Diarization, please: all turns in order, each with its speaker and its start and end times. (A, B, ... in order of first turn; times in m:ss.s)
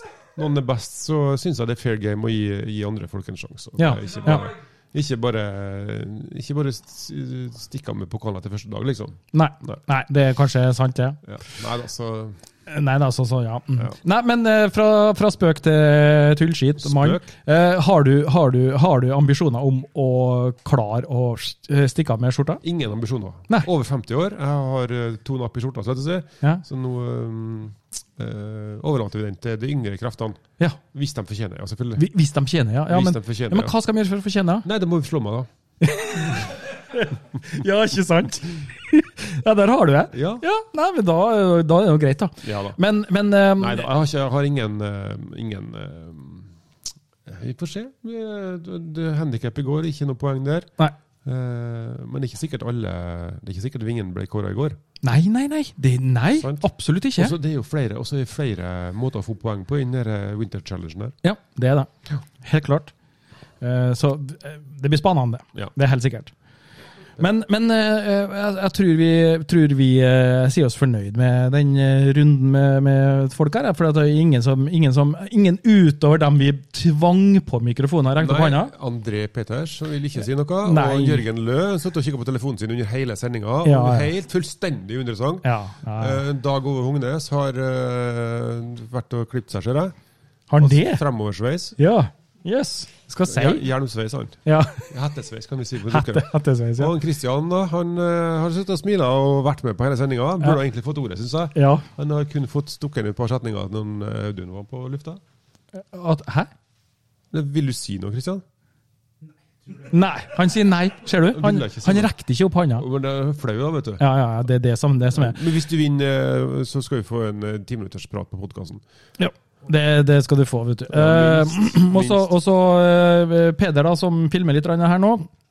0:00.4-0:09.8 A
0:03.8-0:04.5 B
0:09.3-0:11.2 B
0:11.2-0:12.4 A
0:12.7-0:22.6 B
0:16.8-0:17.3 A
0:22.6-0:32.1 A
0:32.0-0:34.7 B
0:32.9-0:33.7 A
0:34.6-0:35.5 A
0:35.8-0:43.9 B
0:40.1-0:40.4 A
0:42.4-0:42.8 A
0:43.6-0:46.5 A
0:47.3-0:50.7 A
0:51.2-0:54.8 A
0:55.0-0:57.4 B
0:56.4-1:01.2 A
1:01.2-1:01.9 B
1:02.4-1:02.9 B
1:03.6-1:06.3 B
1:07.2-1:18.7 B
1:18.2-1:30.0 A
1:20.6-1:21.3 B
1:23.6-1:24.1 B
1:25.4-1:26.2 B
1:30.5-1:31.0 B
1:30.6-1:31.8 A
1:31.8-1:33.7 B
1:33.3-1:45.2 A
1:34.5-1:34.9 B
1:35.9-1:36.9 B
1:41.6-1:41.9 B
1:45.8-1:46.5 B
1:47.3-1:48.4 A
1:49.8-1:52.8 B
1:51.3-1:52.1 A
1:52.8-1:54.0 A
1:54.0-1:55.4 B
1:55.1-1:58.8 A
1:59.2-2:05.3 B
2:00.9-2:02.4 A